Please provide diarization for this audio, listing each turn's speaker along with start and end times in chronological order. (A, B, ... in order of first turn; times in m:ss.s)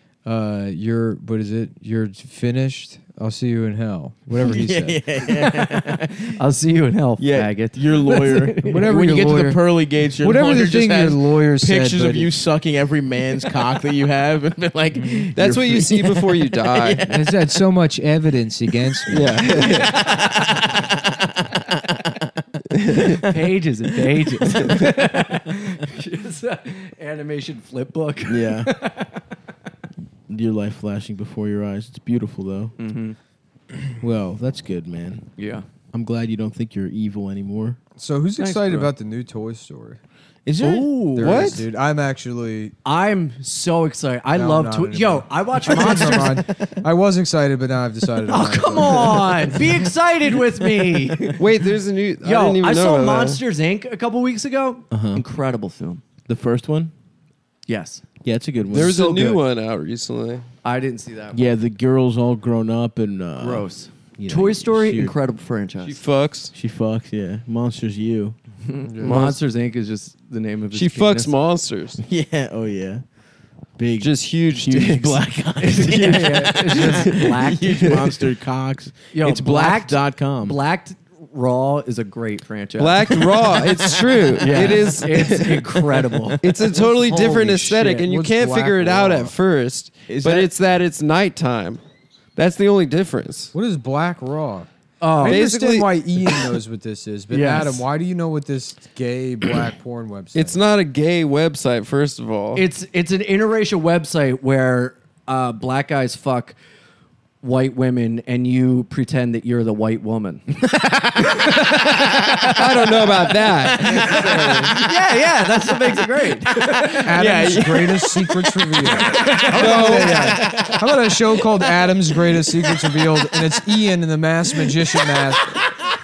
0:00.2-0:05.0 A
0:04.4-0:06.4 B
0:05.3-0:09.0 C
0:07.2-0:17.3 B
0:08.6-0:09.6 A
0:10.2-0:12.3 A
0:15.0-0:15.3 A
0:15.4-0:17.1 D
0:17.0-0:19.4 A
0:19.1-0:20.0 D
0:19.8-0:22.3 B
0:20.0-0:20.6 C
0:22.8-0:23.1 D
0:23.0-0:23.4 B
0:23.2-0:29.2 C
0:24.2-0:24.8 B
0:28.3-0:28.7 B
0:30.3-0:32.7 B
0:32.8-0:33.2 C
0:34.0-0:35.3 B
0:35.4-0:35.6 C
0:35.9-0:37.8 B
0:38.0-0:40.0 A
0:38.4-0:38.9 C
0:40.4-0:41.6 B
0:40.7-0:42.7 A
0:41.2-0:41.6 D
0:42.8-0:46.4 C
0:44.3-0:49.6 A
0:45.7-0:46.3 B
0:48.3-0:51.4 C
0:51.4-0:53.4 D
0:52.2-0:56.0 C
0:54.9-0:55.2 B
0:56.3-0:56.9 B
0:57.7-0:58.0 C
0:58.2-0:59.1 B
0:58.7-1:00.4 D
0:58.7-0:59.4 C
1:00.6-1:01.5 C
1:01.3-1:05.1 B
1:03.4-1:06.0 C
1:05.8-1:06.5 D
1:06.5-1:08.4 B
1:08.6-1:11.3 C
1:08.9-1:09.2 A
1:09.0-1:09.4 D
1:10.7-1:12.0 D
1:12.0-1:13.0 B
1:13.8-1:20.6 B
1:14.0-1:15.2 D
1:15.6-1:18.0 C
1:17.8-1:18.1 D
1:19.1-1:28.1 C
1:22.8-1:25.8 D
1:26.1-1:26.6 B
1:26.4-1:31.8 D
1:28.0-1:29.3 A
1:30.1-1:30.5 B
1:32.4-1:33.5 D
1:33.5-1:40.6 A
1:35.0-1:35.4 C
1:35.2-1:35.9 D
1:37.3-1:37.8 C
1:40.3-1:42.6 D
1:42.6-1:46.6 C
1:47.4-1:50.6 C
1:51.1-1:52.9 C
1:51.2-1:52.5 B
1:52.4-1:54.7 D
1:53.8-1:54.9 B
1:53.8-1:57.1 C
1:55.9-2:00.8 B
1:57.0-2:05.6 A
1:59.1-2:00.3 C
1:59.4-2:00.5 D